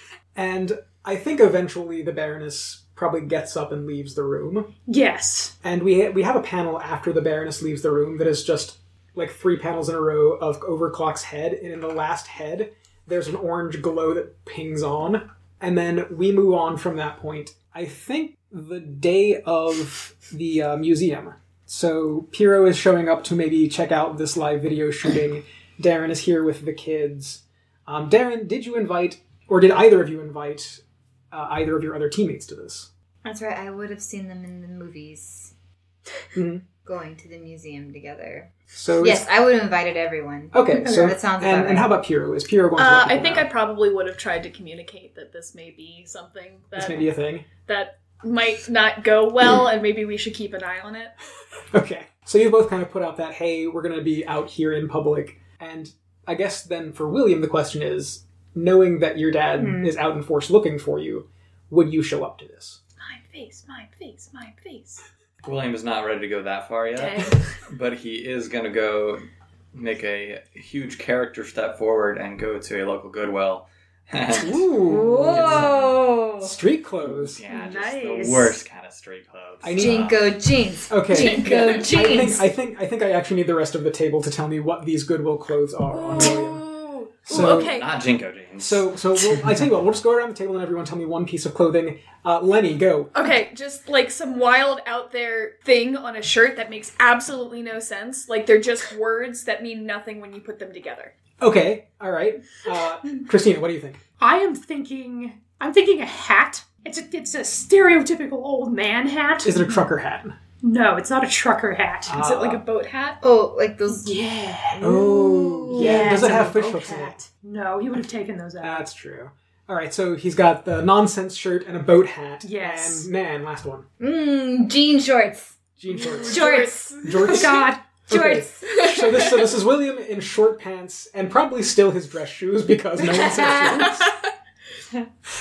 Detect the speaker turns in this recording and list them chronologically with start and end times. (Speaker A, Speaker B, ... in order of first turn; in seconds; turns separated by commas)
Speaker A: 0.3-4.7, Speaker B: 4.9-5.5, Speaker A: 5.6-32.9, Speaker C: 33.2-35.5, Speaker A: 36.4-36.7, Speaker C: 36.8-41.9, Speaker A: 38.7-39.3, Speaker A: 40.5-43.5, Speaker B: 40.8-41.1, Speaker D: 42.8-47.1, Speaker A: 46.8-47.5, Speaker D: 47.7-51.1, Speaker A: 51.7-62.8, Speaker B: 59.6-59.9, Speaker D: 63.0-65.0, Speaker E: 65.4-75.9, Speaker D: 67.0-67.2, Speaker A: 74.4-75.7, Speaker C: 74.8-76.6, Speaker A: 76.4-77.4, Speaker E: 77.1-80.3, Speaker B: 77.5-78.6, Speaker A: 79.6-80.1, Speaker C: 79.8-82.5, Speaker A: 80.9-86.7, Speaker D: 81.1-81.9, Speaker D: 85.9-87.9, Speaker A: 87.3-87.7, Speaker E: 87.3-89.5, Speaker A: 88.6-93.2, Speaker D: 93.2-101.1, Speaker A: 101.4-104.0, Speaker B: 104.2-109.8, Speaker A: 109.4-110.4, Speaker B: 110.6-112.2, Speaker A: 112.0-112.6, Speaker D: 112.2-113.2, Speaker C: 113.2-114.2, Speaker B: 113.9-115.0, Speaker C: 114.8-116.5, Speaker A: 114.8-117.2, Speaker B: 115.7-118.9, Speaker A: 118.6-123.9, Speaker B: 122.4-123.1, Speaker C: 124.0-125.6, Speaker A: 125.8-126.5, Speaker D: 125.9-127.5, Speaker C: 126.2-127.1, Speaker B: 126.3-128.1, Speaker A: 127.0-134.1, Speaker C: 128.1-128.6, Speaker D: 128.7-129.5, Speaker C: 133.0-134.1, Speaker D: 133.5-134.1